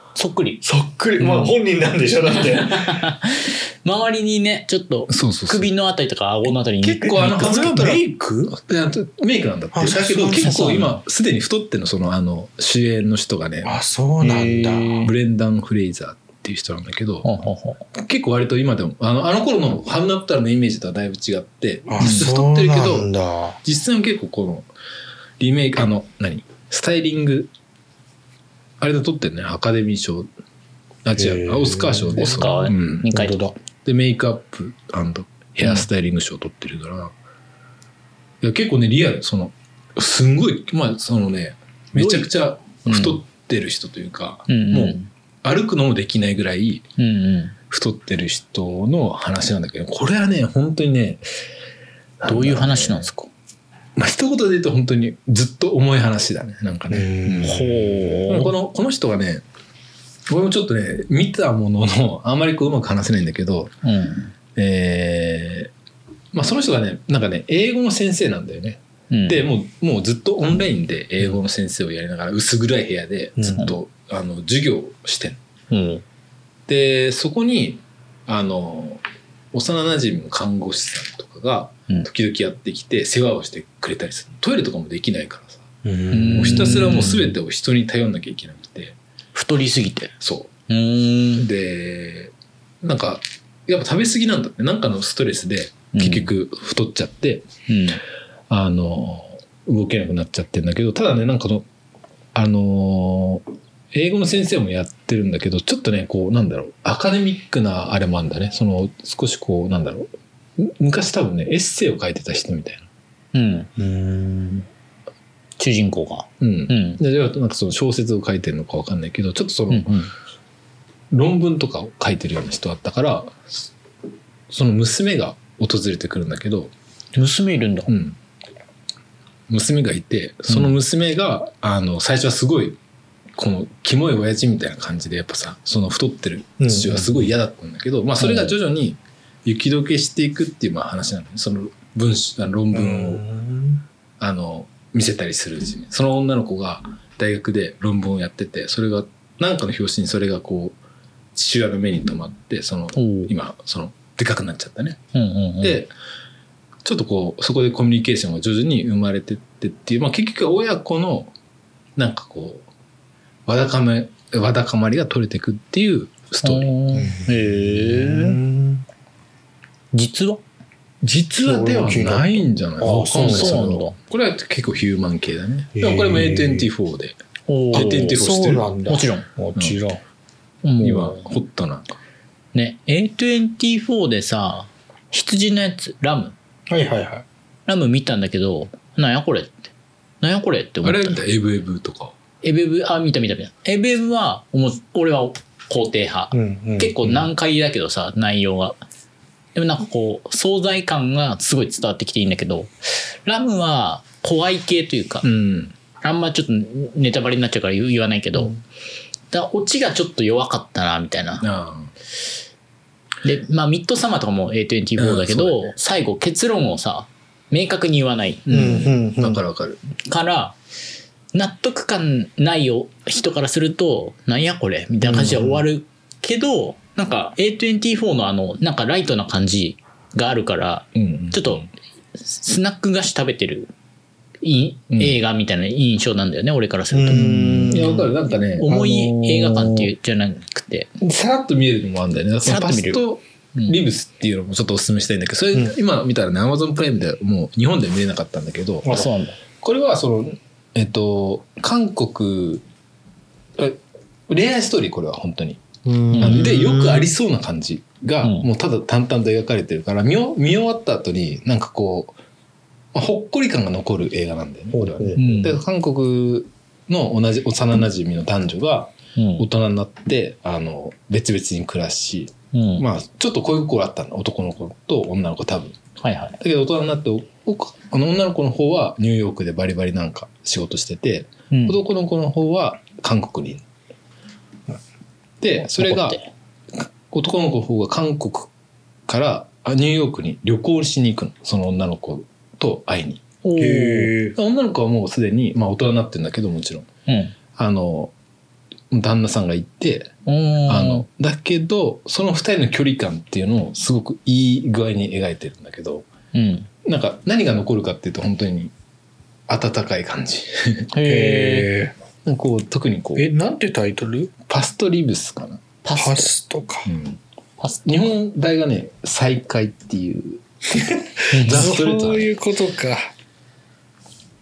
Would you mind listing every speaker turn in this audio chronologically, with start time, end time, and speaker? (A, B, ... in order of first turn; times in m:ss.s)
0:00.1-0:00.6 A
0:00.6-0:03.1 B
0:01.2-0:01.5 A
0:02.3-0:07.5 A
0:05.1-0:05.7 C
0:06.8-0:17.3 C
0:07.2-0:08.5 B
0:09.7-0:10.9 B
0:10.4-0:10.9 A
0:13.6-0:15.1 B
0:14.3-0:15.1 A
0:17.2-0:17.8 A
0:17.9-0:24.7 C
0:21.9-0:23.6 B
0:22.0-0:22.3 A
0:25.4-0:27.5 C
0:28.8-0:30.3 C
0:31.0-0:33.1 C
0:31.2-0:32.4 B
0:32.2-0:33.4 A
0:33.1-0:33.5 B
0:33.8-0:37.1 C
0:38.4-0:46.8 C
0:41.9-0:42.3 A
0:42.8-0:43.2 A
0:44.5-0:45.1 A
0:47.0-0:47.5 A
0:47.7-0:51.2 C
0:52.2-0:53.1 C
0:52.2-0:53.3 A
0:54.0-0:59.4 C
0:56.9-0:58.0 B
0:57.4-0:58.5 A
1:00.3-1:03.7 C
1:03.8-1:04.3 A
1:04.5-1:05.7 C
1:06.3-1:15.4 C
1:09.1-1:09.4 A
1:13.5-1:13.7 A
1:15.7-1:16.0 A
1:16.7-1:19.0 C
1:19.5-1:25.7 C
1:25.8-1:27.1 B
1:26.1-1:27.3 A
1:26.3-1:29.0 C
1:29.3-1:30.1 A
1:30.2-1:30.5 C
1:30.7-1:31.5 A
1:31.4-1:37.5 C
1:35.9-1:36.3 A
1:37.7-1:38.0 A
1:38.5-1:41.6 C
1:42.3-1:52.9 C
1:53.3-1:53.7 A
1:53.8-1:54.6 B
1:55.6-1:57.0 A
1:56.4-2:00.1 C
1:59.7-2:00.1 A
2:01.1-2:03.7 C
2:04.5-2:06.7 C
2:07.1-2:07.9 A
2:07.9-2:08.2 C
2:09.5-2:12.8 C
2:13.4-2:23.2 C
2:16.6-2:17.2 B
2:18.2-2:18.5 A
2:22.7-2:23.8 B
2:24.2-2:30.8 C
2:31.3-2:35.0 C
2:33.0-2:33.3 A
2:35.1-2:35.8 A
2:35.6-2:35.9 C
2:36.8-2:41.3 C
2:42.0-2:42.6 C
2:43.4-2:46.7 C
2:46.4-2:48.4 A
2:47.0-2:48.8 B
2:49.9-2:50.4 A
2:51.0-2:57.2 C
2:51.1-2:53.6 B
2:53.2-2:54.0 A
2:55.8-2:56.7 B
2:57.5-2:58.2 A
2:57.7-2:58.7 C
2:57.7-3:00.0 B
2:58.9-2:59.2 A
3:00.6-3:01.2 A
3:00.8-3:01.9 C
3:02.5-3:06.3 A
3:06.7-3:07.2 B
3:07.7-3:09.6 A
3:10.2-3:11.2 A
3:10.8-3:12.1 C
3:12.4-3:18.8 A
3:16.3-3:16.9 B
3:19.5-3:25.3 A
3:25.2-3:25.7 C
3:26.0-3:28.6 A
3:29.3-3:31.4 A
3:31.4-3:31.9 C
3:33.2-3:38.4 A
3:35.0-3:35.6 C
3:38.4-3:39.8 C
3:38.5-3:39.4 B
3:40.0-3:40.6 A
3:41.3-3:51.6 A
3:45.0-3:45.6 C
3:50.9-3:51.7 C
3:52.2-3:53.7 A
3:54.4-3:57.9 A
3:54.9-3:55.2 C
3:56.9-3:58.1 B
3:57.2-3:59.9 C
3:58.6-4:00.9 A
4:01.0-4:09.1 C
4:02.4-4:03.0 A
4:08.8-4:09.4 A
4:09.6-4:12.6 C
4:13.6-4:15.6 C
4:15.8-4:17.1 B
4:16.1-4:16.5 A
4:16.2-4:22.1 C
4:22.9-4:35.8 C
4:24.7-4:25.2 B
4:25.2-4:25.6 A
4:29.2-4:29.4 A
4:32.5-4:32.8 A
4:36.0-4:36.4 A
4:36.4-4:43.6 C
4:41.5-4:41.8 A
4:45.4-4:46.2 C
4:45.8-4:46.3 A
4:46.7-4:48.5 C
4:49.1-4:53.2 C
4:53.4-4:54.1 A
4:53.6-4:54.3 B
4:54.3-4:56.9 C
4:57.1-4:57.3 A
4:57.5-4:58.1 C
4:58.9-5:00.1 C
5:00.2-5:01.0 A
5:00.7-5:06.0 C
5:06.3-5:06.7 A
5:06.8-5:08.7 C
5:09.5-5:10.9 C
5:10.9-5:11.7 A
5:11.0-5:11.9 B
5:12.2-5:13.3 C
5:13.2-5:14.3 B
5:14.5-5:15.6 C
5:15.8-5:16.3 A
5:15.9-5:16.9 B
5:16.8-5:17.2 C
5:17.6-5:18.0 A
5:17.8-5:22.3 C
5:21.2-5:23.1 B
5:21.3-5:21.7 A